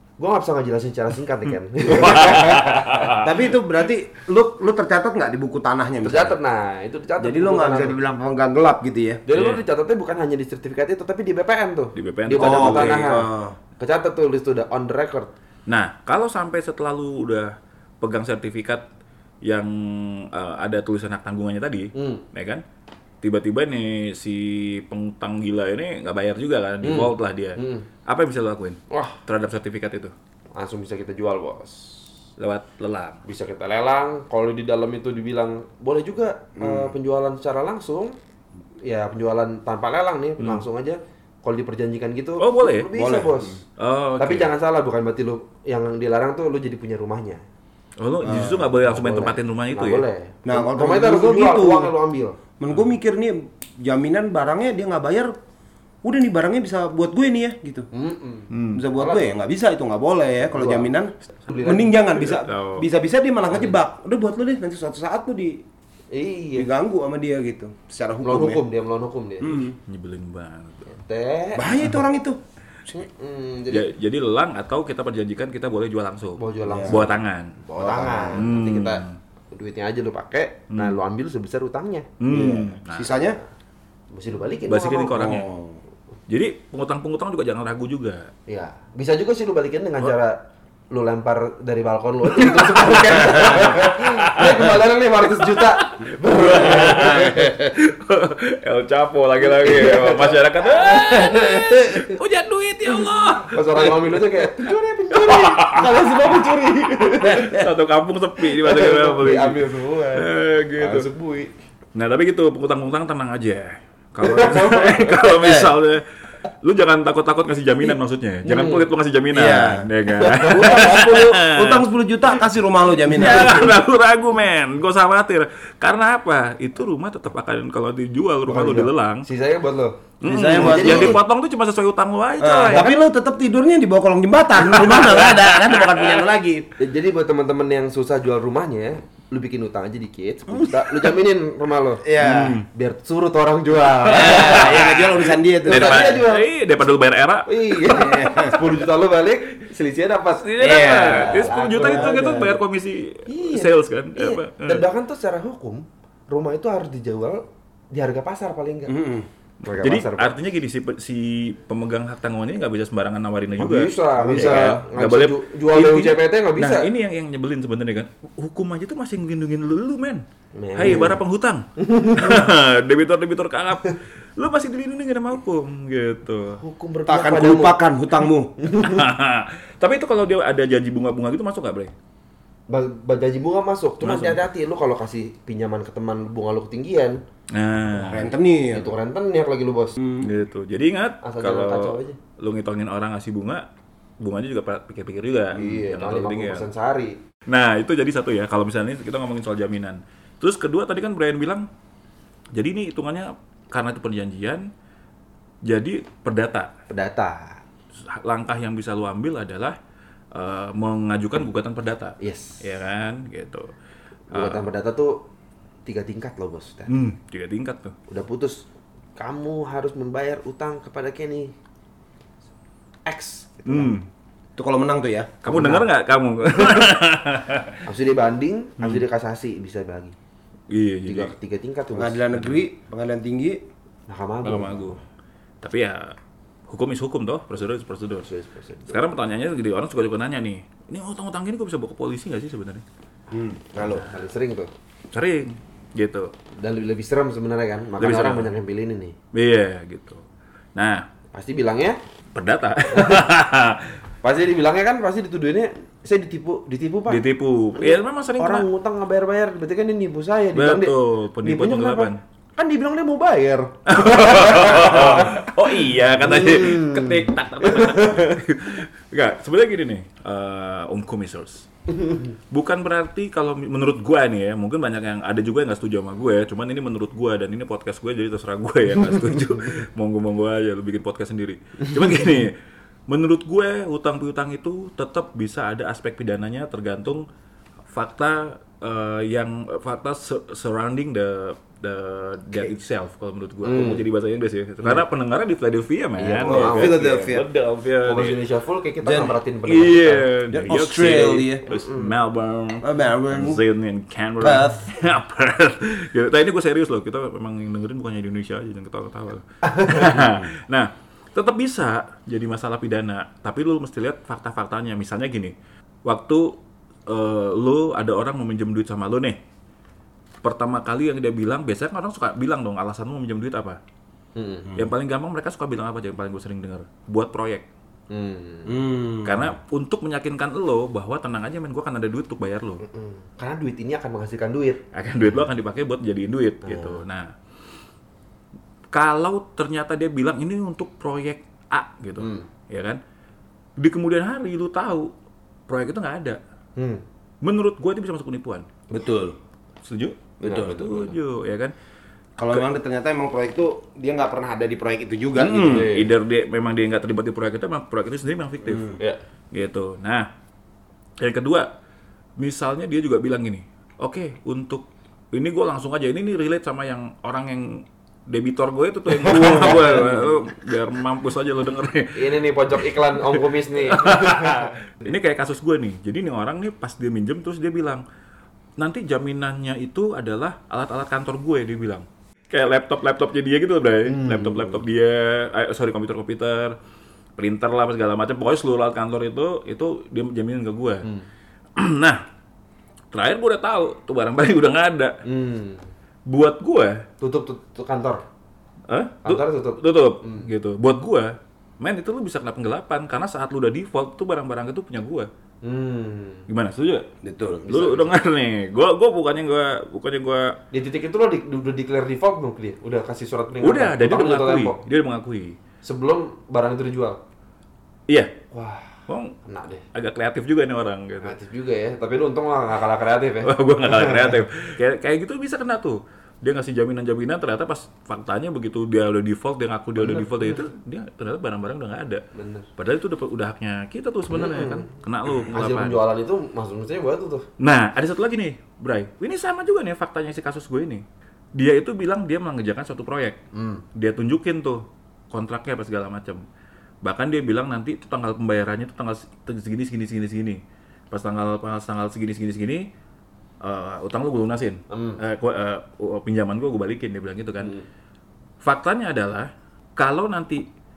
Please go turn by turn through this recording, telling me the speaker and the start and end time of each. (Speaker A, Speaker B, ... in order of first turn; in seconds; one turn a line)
Speaker A: 0.2-3.2
Speaker B: 1.9-3.3
Speaker C: 3.1-6.4
Speaker A: 6.0-8.0
Speaker C: 7.2-9.2
Speaker A: 9.3-15.3
Speaker B: 9.3-9.6
Speaker B: 11.9-13.1
Speaker C: 12.3-13.6
Speaker B: 15.7-18.8
Speaker B: 19.4-22.6
Speaker A: 21.9-22.2
Speaker B: 23.2-30.1
Speaker A: 26.8-27.9
Speaker A: 28.9-29.2
Speaker A: 30.5-32.1
Speaker B: 32.4-33.2
Speaker A: 33.2-38.1
Speaker C: 36.6-36.9
Speaker A: 38.8-43.6
Speaker B: 40.4-40.6
Speaker B: 42.4-42.9
Speaker C: 42.9-43.5
Speaker B: 43.8-44.5
Speaker A: 44.2-47.4
Speaker B: 48.0-50.0
Speaker C: 48.2-48.7
Speaker A: 48.7-52.4
Speaker C: 50.5-51.9
Speaker C: 52.6-55.3
Speaker C: 56.0-57.9
Speaker A: 57.9-59.3
Speaker B: 58.5-58.8
Speaker C: 58.7-65.6
Speaker A: 60.5-60.9
Speaker A: 61.5-62.0
Speaker B: 62.2-62.9
Speaker A: 66.1-66.7
Speaker C: 66.5-68.6
Speaker A: 68.2-69.7
Speaker C: 69.4-69.7
Speaker B: 69.7-70.9
Speaker A: 70.9-71.9
Speaker C: 71.5-72.4
Speaker A: 72.9-73.9
Speaker B: 73.7-77.6
Speaker A: 76.4-82.7
Speaker C: 76.7-77.0
Speaker C: 77.8-78.4
Speaker B: 78.3-79.2
Speaker B: 80.7-81.0
Speaker B: 82.2-83.2
Speaker C: 82.3-83.4
Speaker A: 84.1-85.3
Speaker B: 84.7-85.5
Speaker C: 85.1-85.8
Speaker B: 86.3-88.3
Speaker A: 88.5-97.5
Speaker B: 92.4-94.8
Speaker B: 95.4-106.3
Speaker A: 99.4-101.7
Speaker A: 103.5-107.6
Speaker B: 107.0-109.6
Speaker C: 107.3-107.7
Speaker A: 108.5-111.5
Speaker B: 110.1-111.1
Speaker B: 111.9-116.0
Speaker A: 114.2-115.5
Speaker C: 115.3-115.7
Speaker B: 116.6-121.8
Speaker A: 118.4-118.8
Speaker C: 119.3-119.8
Speaker A: 120.1-121.2
Speaker C: 120.5-123.8
Speaker B: 123.0-129.3
Speaker A: 128.5-131.2
Speaker B: 130.2-132.9
Speaker C: 130.2-131.2
Speaker C: 132.4-136.7
Speaker A: 132.7-132.9
Speaker B: 134.7-136.2
Speaker A: 136.8-142.0
Speaker C: 142.0-142.6
Speaker B: 142.2-142.7
Speaker A: 142.7-144.9
Speaker C: 144.1-146.2
Speaker B: 144.2-147.5
Speaker A: 145.6-146.5
Speaker A: 147.4-152.5
Speaker C: 147.9-148.6
Speaker B: 150.4-154.8
Speaker C: 150.6-152.5
Speaker A: 153.3-158.9
Speaker C: 158.9-159.3
Speaker A: 159.6-160.3
Speaker B: 159.8-170.2
Speaker A: 163.6-166.9
Speaker C: 164.2-164.8
Speaker A: 170.5-171.2
Speaker B: 170.8-176.6
Speaker A: 171.8-172.5
Speaker A: 176.6-177.8
Speaker C: 177.1-178.6
Speaker A: 178.6-179.0
Speaker B: 178.8-181.9
Speaker A: 182.7-187.2
Speaker B: 184.0-184.4
Speaker B: 187.5-188.3
Speaker C: 188.0-188.9
Speaker A: 188.7-190.0
Speaker C: 190.0-190.3
Speaker B: 190.2-193.7
Speaker A: 191.2-192.2
Speaker B: 194.2-196.7
Speaker A: 195.5-197.2
Speaker B: 197.5-201.7
Speaker B: 202.5-204.7
Speaker B: 205.6-206.7
Speaker A: 206.9-207.6
Speaker B: 207.9-209.8
Speaker B: 210.3-213.7
Speaker A: 212.2-212.6
Speaker A: 214.3-215.3
Speaker B: 214.3-214.6
Speaker A: 215.8-216.9
Speaker B: 216.9-217.9
Speaker A: 218.1-218.7
Speaker A: 219.2-221.5
Speaker A: 223.1-224.0
Speaker B: 223.7-224.1
Speaker C: 224.6-225.4
Speaker B: 225.4-227.8
Speaker A: 225.4-225.9
Speaker A: 226.5-226.8
Speaker A: 227.8-230.2
Speaker B: 230.7-231.3
Speaker A: 231.1-232.5
Speaker C: 231.9-233.6
Speaker A: 234.1-234.9
Speaker B: 234.4-235.0
Speaker B: 235.6-236.2
Speaker B: 236.7-238.3
Speaker A: 238.2-239.0
Speaker B: 238.9-242.8
Speaker C: 243.3-244.1
Speaker A: 243.7-244.7
Speaker B: 245.1-246.3
Speaker A: 246.6-249.1
Speaker B: 248.0-248.5
Speaker B: 249.3-250.2
Speaker B: 250.8-251.0
Speaker A: 251.3-252.0
Speaker B: 252.3-254.0
Speaker A: 252.9-253.2
Speaker A: 254.2-257.2
Speaker B: 257.1-258.7
Speaker A: 257.8-265.5
Speaker B: 260.5-262.2
Speaker B: 263.9-271.7
Speaker A: 266.2-268.3
Speaker A: 271.9-272.2
Speaker B: 272.5-282.6
Speaker B: 283.1-287.2
Speaker B: 287.9-298.4
Speaker A: 293.6-294.0
Speaker A: 296.2-297.0
Speaker C: 296.4-297.4
Speaker A: 298.0-300.3
Speaker C: 299.0-299.3
Speaker B: 299.6-315.5
Speaker C: 300.5-301.6
Speaker A: 301.7-302.1
Speaker C: 302.8-303.6
Speaker C: 304.4-304.9
Speaker A: 309.6-310.2
Speaker B: 316.0-319.4
Speaker B: 320.4-323.8
Speaker A: 324.4-324.7
Speaker B: 324.7-327.6
Speaker A: 328.1-328.8
Speaker C: 328.7-329.5
Speaker B: 329.2-332.8
Speaker A: 332.8-334.8
Speaker B: 334.9-337.3
Speaker A: 336.6-337.0
Speaker B: 338.9-343.0
Speaker A: 342.2-342.5
Speaker B: 343.8-345.1
Speaker B: 345.7-346.4
Speaker A: 346.8-347.0
Speaker B: 347.4-348.7
Speaker C: 348.9-349.4
Speaker B: 349.8-351.7
Speaker A: 350.4-351.1
Speaker C: 352.4-355.8
Speaker B: 355.4-359.0
Speaker A: 355.4-356.1
Speaker B: 359.5-360.3
Speaker B: 361.2-361.7
Speaker B: 362.4-378.0
Speaker A: 369.1-370.4
Speaker A: 372.1-374.7
Speaker B: 378.8-386.8
Speaker A: 384.1-384.8
Speaker B: 387.4-391.1
Speaker B: 391.8-392.2
Speaker B: 393.1-395.2
Speaker A: 395.2-395.9
Speaker B: 396.3-397.0
Speaker A: 397.2-398.2
Speaker B: 398.9-405.3
Speaker A: 399.2-400.5
Speaker A: 405.6-406.5
Speaker B: 406.5-407.1
Speaker C: 407.2-407.7
Speaker A: 407.6-408.1
Speaker B: 407.7-410.6
Speaker A: 410.7-414.8
Speaker B: 413.6-415.6
Speaker A: 415.8-417.2
Speaker B: 418.1-418.3
Speaker A: 418.5-419.8
Speaker B: 419.1-419.3
Speaker B: 419.9-421.4
Speaker A: 421.2-424.4
Speaker B: 423.4-432.2
Speaker A: 430.0-430.6
Speaker A: 432.3-432.7
Speaker B: 432.8-436.1
Speaker A: 434.3-437.4
Speaker B: 437.6-441.0
Speaker B: 441.5-443.4
Speaker A: 443.5-443.8
Speaker B: 443.9-446.4
Speaker B: 447.0-452.8
Speaker B: 453.6-457.7
Speaker A: 454.9-455.2
Speaker B: 458.6-460.6